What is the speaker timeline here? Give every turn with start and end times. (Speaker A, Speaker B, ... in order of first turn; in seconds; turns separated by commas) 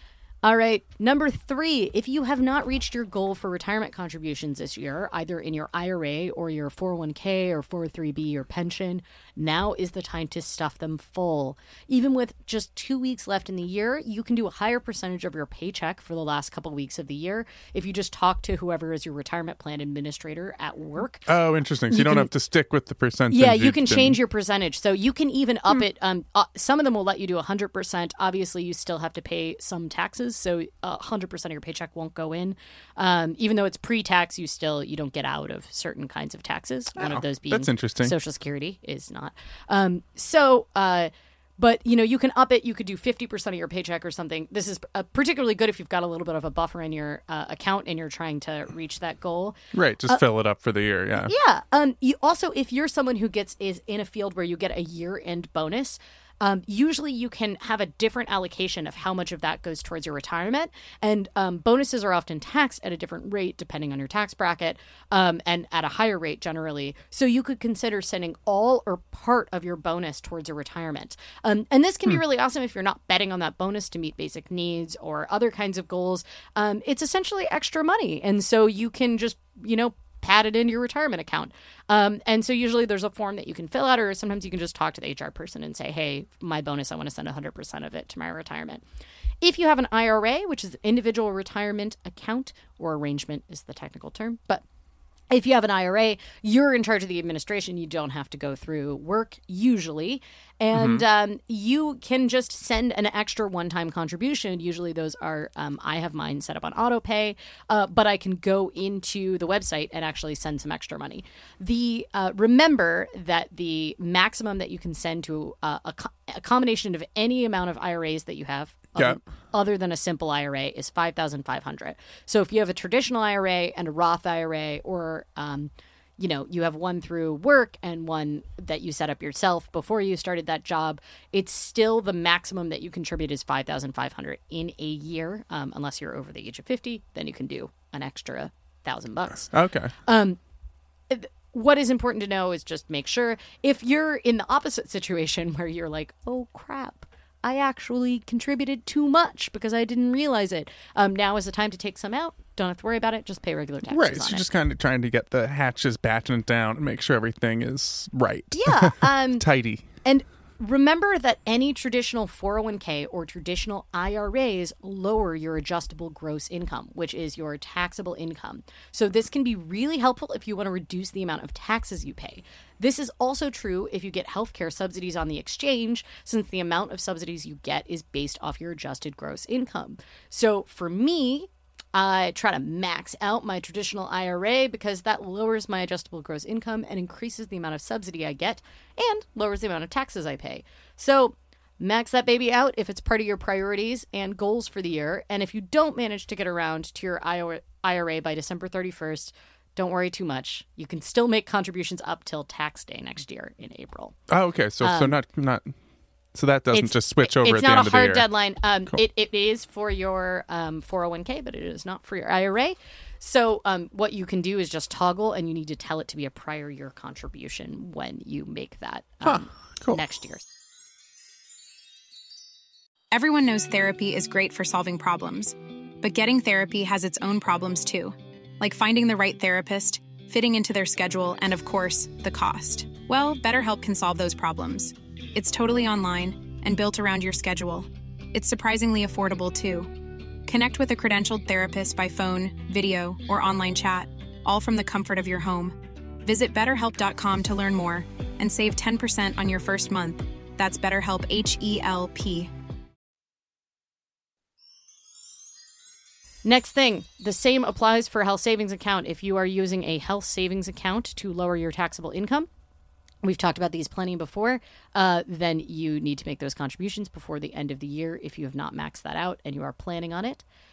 Speaker A: 0.4-21.3, Speaker B: 21.3-24.2, Speaker A: 21.9-22.3, Speaker A: 23.3-49.6, Speaker B: 37.0-38.1, Speaker B: 49.7-51.3, Speaker A: 51.2-88.8, Speaker A: 89.4-94.6, Speaker A: 95.3-140.4, Speaker B: 100.7-101.0, Speaker B: 139.5-139.9, Speaker A: 141.1-154.5, Speaker B: 153.9-159.9, Speaker A: 158.5-159.5, Speaker A: 160.0-204.2, Speaker B: 204.3-205.7, Speaker A: 204.8-205.2, Speaker B: 206.3-208.3, Speaker A: 206.7-220.4, Speaker B: 219.2-220.0, Speaker C: 223.1-239.9, Speaker C: 240.5-252.5, Speaker A: 256.4-262.5, Speaker A: 263.2-270.4